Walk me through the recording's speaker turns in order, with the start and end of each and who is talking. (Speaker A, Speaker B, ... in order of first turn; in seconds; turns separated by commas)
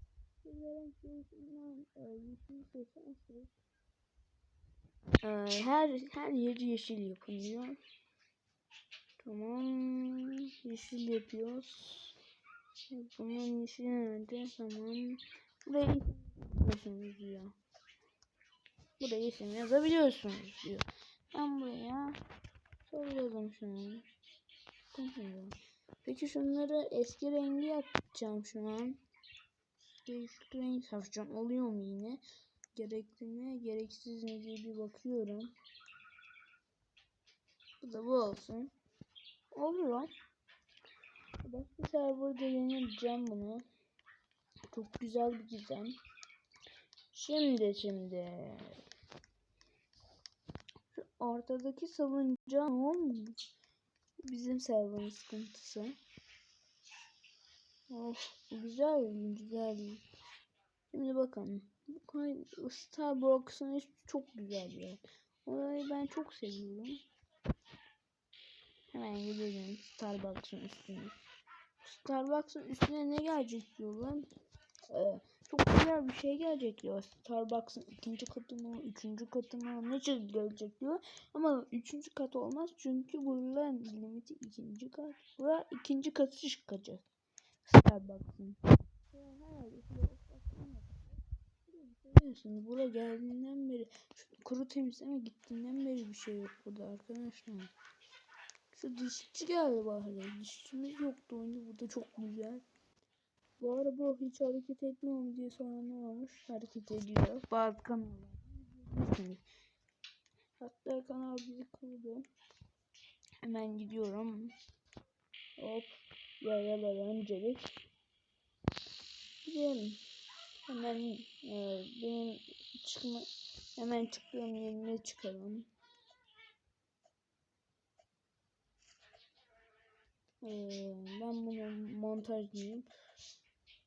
Speaker A: 0.4-3.5, Speaker A: 5.2-7.8, Speaker A: 9.2-12.2, Speaker A: 12.9-17.5, Speaker A: 19.0-22.2, Speaker A: 22.8-24.0, Speaker A: 24.9-29.0, Speaker A: 30.0-32.2, Speaker A: 32.7-35.5, Speaker A: 37.8-38.7, Speaker A: 39.5-40.1, Speaker A: 41.4-43.6, Speaker A: 44.7-46.0, Speaker A: 47.1-48.8, Speaker A: 50.9-53.4, Speaker A: 54.2-55.9, Speaker A: 57.9-60.0, Speaker A: 60.9-67.0, Speaker A: 68.9-71.1, Speaker A: 71.8-74.2, Speaker A: 74.9-87.0, Speaker A: 87.6-88.6, Speaker A: 89.1-97.7, Speaker A: 98.7-102.6, Speaker A: 103.6-109.4, Speaker A: 110.6-112.2, Speaker A: 113.4-114.5, Speaker A: 115.6-117.8, Speaker A: 119.4-120.0, Speaker A: 120.7-125.7, Speaker A: 130.4-132.8